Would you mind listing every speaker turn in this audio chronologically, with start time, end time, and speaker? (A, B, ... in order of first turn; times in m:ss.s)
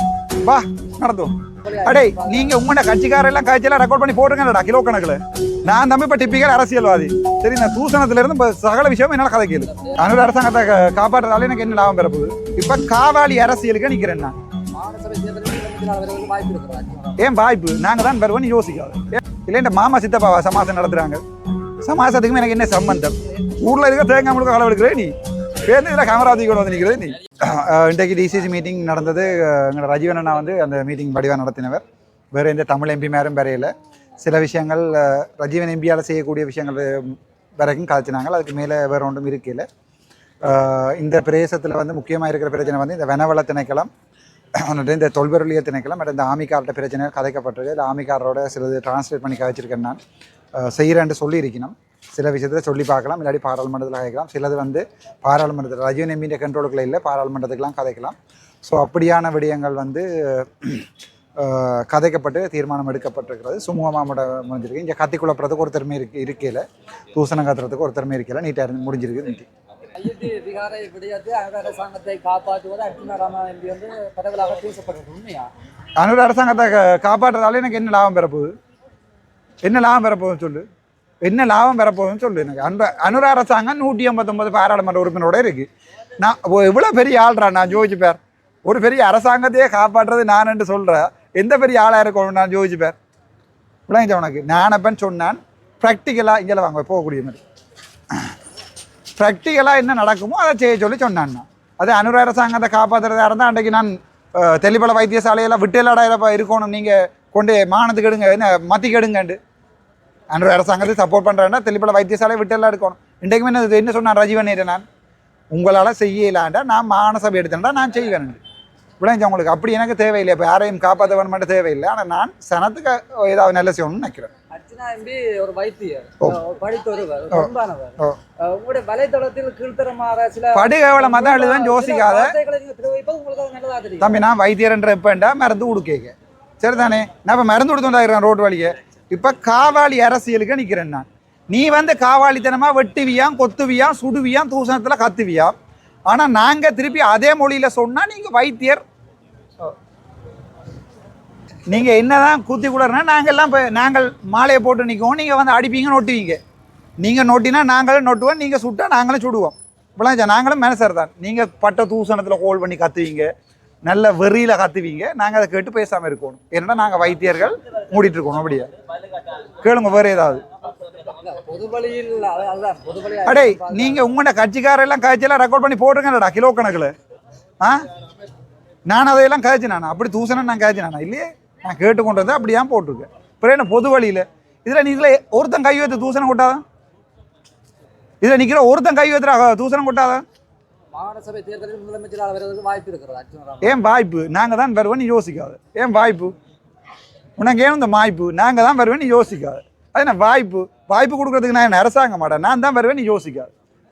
0:00.4-0:14.4 A
0:01.6-0:02.6 B
0:09.6-0:10.4 B
0:14.7-0:17.2 B
0:17.2-0:21.2 A
0:21.8-0:25.1 A
0:25.6-0:39.7 A
0:40.4-0:43.9 A
0:44.6-0:50.0 A
0:50.6-1:00.9 A
1:01.4-1:09.5 A
1:10.0-1:15.5 B
1:16.0-1:18.5 A
1:19.6-1:20.6 A
1:21.2-1:25.7 A
1:26.2-1:33.0 A
1:33.9-1:37.4 A
1:39.2-1:49.4 A
1:50.3-1:54.8 A
1:55.5-1:58.4 A
1:59.0-2:04.3 A
2:04.5-2:14.2 B
2:07.3-2:08.2 A
2:10.5-2:12.4 A
2:14.0-2:25.5 A
2:26.1-2:28.8 A
2:31.7-2:36.4 A
2:37.0-2:43.3 A
2:43.8-2:48.7 A
2:49.6-2:50.4 A
2:50.9-2:54.1 B
2:53.3-2:56.9 A
2:58.9-3:06.6 A
3:08.2-3:10.2 A
3:10.9-3:13.8 B
3:13.6-3:16.3 A
3:17.4-3:23.5 A